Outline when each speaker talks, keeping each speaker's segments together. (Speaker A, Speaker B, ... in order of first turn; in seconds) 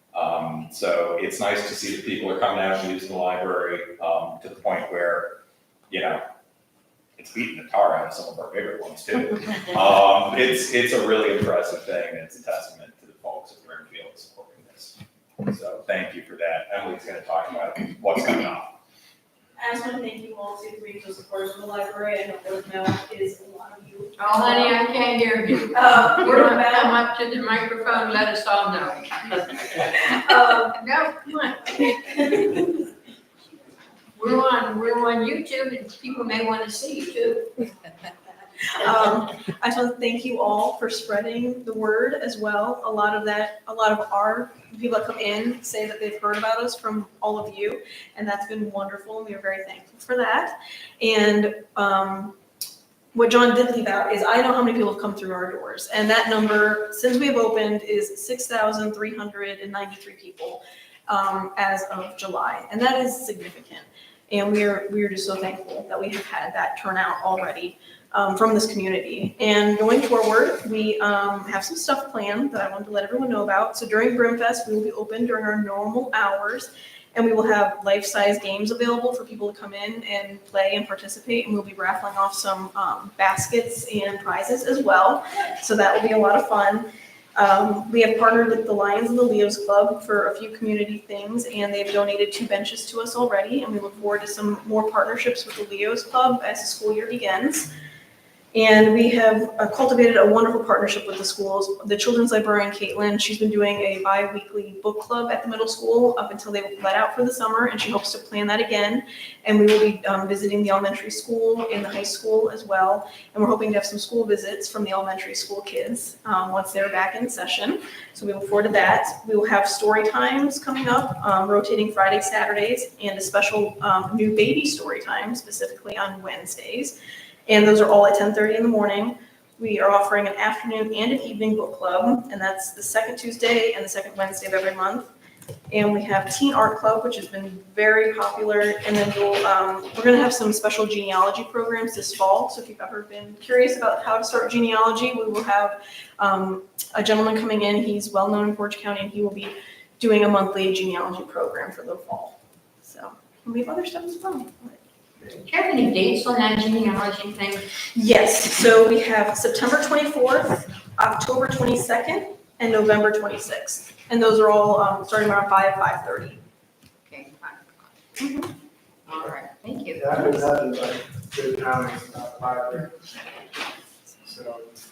Speaker A: 0.1-5.4, 5.9-6.2, 7.2-18.8
Speaker B: 19.6-24.8, 25.7-27.0, 29.9-32.7, 38.7-52.4, 53.1-97.7, 98.5-127.0, 127.5-135.1, 135.7-154.8, 157.9-166.4, 168.2-168.5
Speaker C: 24.2-32.2, 34.1-37.7, 155.3-157.7, 167.1-167.9, 169.1-170.4
Speaker D: 169.9-173.0, 174.2-174.8